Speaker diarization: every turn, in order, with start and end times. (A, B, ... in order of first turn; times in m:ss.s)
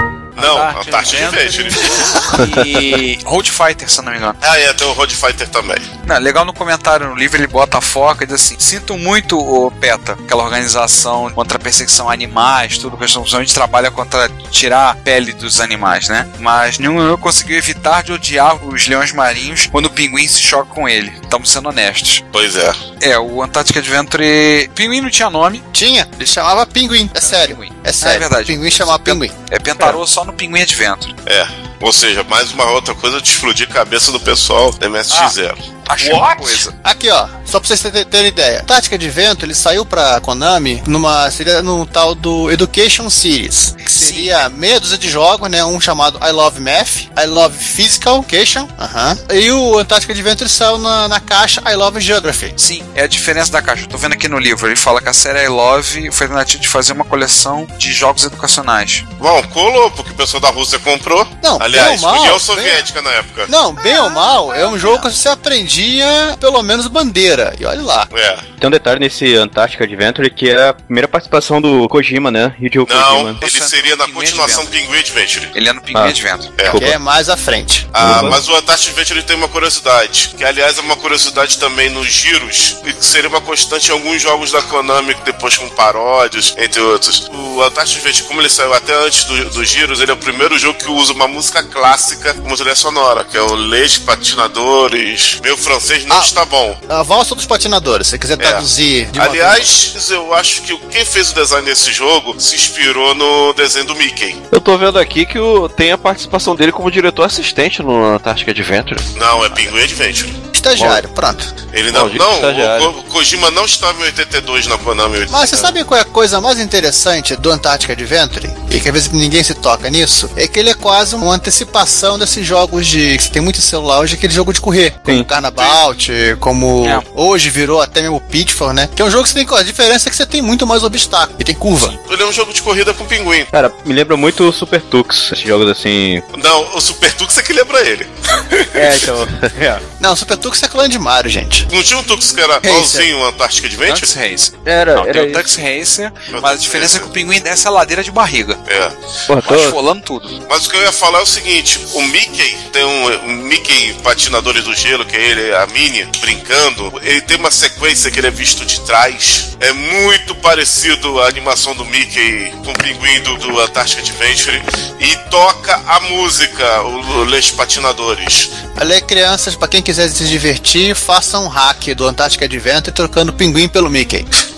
0:00.4-0:02.3 A
0:00.4-0:04.4 B
0:04.4-0:05.8 A
0:06.0-0:22.2 B
0:22.3-0:22.8 A
0:23.0-0:25.6 B
0:25.7-0:29.3 C
0:27.2-0:31.1 B
0:31.3-0:35.6 A
0:35.1-0:35.4 B
0:35.9-0:36.7 B
0:36.8-0:52.6 C
0:43.8-0:44.4 B
0:52.6-0:59.0 B
0:59.2-1:03.5 A
1:01.4-1:02.8 C
1:03.5-1:08.1 C
1:04.5-1:05.0 B
1:08.1-1:08.4 A
1:08.6-1:13.4 D
1:12.8-1:15.5 A
1:13.4-1:14.7 B
1:15.5-1:16.5 B
1:16.6-1:16.8 A
1:16.7-1:18.0 C
1:17.9-1:36.8 A
1:18.0-1:18.4 E
1:18.1-1:18.4 D
1:36.9-1:39.7 C
1:38.4-1:44.4 A
1:44.5-1:49.1 E
1:49.2-1:50.4 A
1:50.5-1:51.5 C
1:50.8-1:51.0 E
1:51.7-1:55.7 A
1:51.9-1:52.9 E
1:55.3-2:12.0 C
2:12.0-2:13.5 A
2:13.5-2:16.2 D
2:16.3-2:19.1 A
2:18.8-2:19.8 D
2:20.0-2:21.7 C
2:21.7-2:24.1 A
2:22.6-2:23.1 C
2:23.9-2:28.6 B
2:24.6-2:25.5 D
2:26.3-2:27.1 A
2:28.6-2:29.0 A
2:29.3-2:29.7 D
2:29.4-2:30.4 B
2:30.5-2:48.5 A
2:48.8-2:54.3 C